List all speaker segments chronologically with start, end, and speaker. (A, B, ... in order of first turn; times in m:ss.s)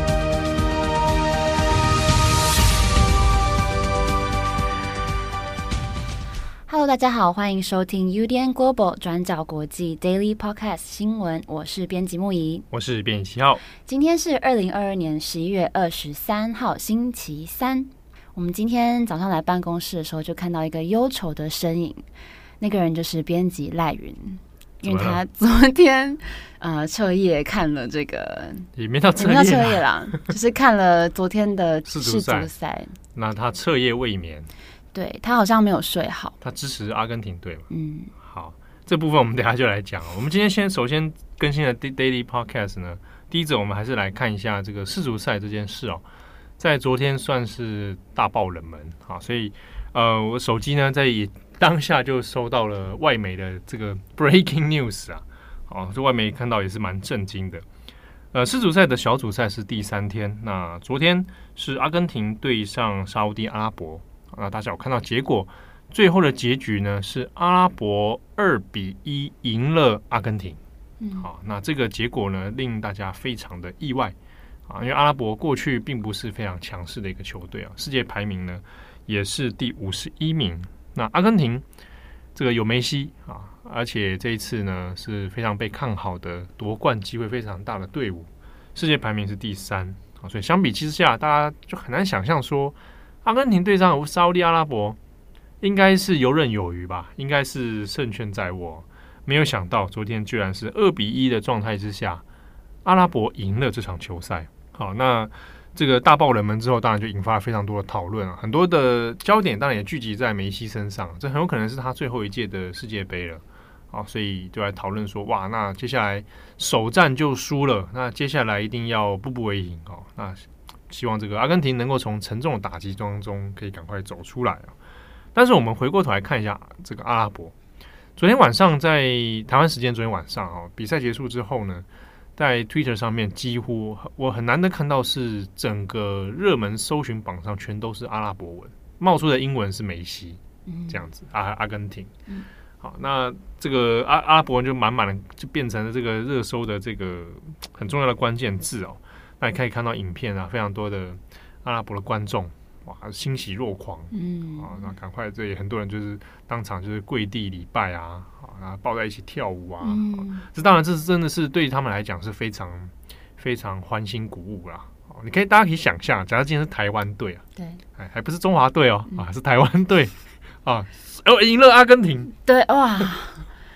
0:06.7-0:12.7 A
0:12.7-0:13.6 B
0:13.8-0:22.0 A
0:22.6-0:33.0 A
0:24.8-0:25.2 B
0:28.8-0:30.2 B
0:31.9-0:32.5 B
0:33.2-0:34.5 B
0:34.9-0:36.4 A
0:36.4-0:37.6 B
0:37.7-0:38.1 A
0:38.2-0:46.0 B
0:46.6-0:57.6 B
0:58.3-1:10.6 B
1:11.0-1:11.3 A
1:11.2-1:14.2 B
1:14.7-1:21.6 B
1:22.4-1:35.0 B
1:35.6-1:42.2 B
1:42.8-2:04.7 B
2:05.4-2:07.5 B
2:08.2-2:11.8 B
2:12.4-2:22.1 B
2:20.7-2:21.1 A
2:22.8-2:47.4 B
2:34.1-2:34.8 A
2:39.8-2:40.5 A
2:47.6-2:47.8 A
2:48.0-2:52.3 B
2:52.4-2:53.5 A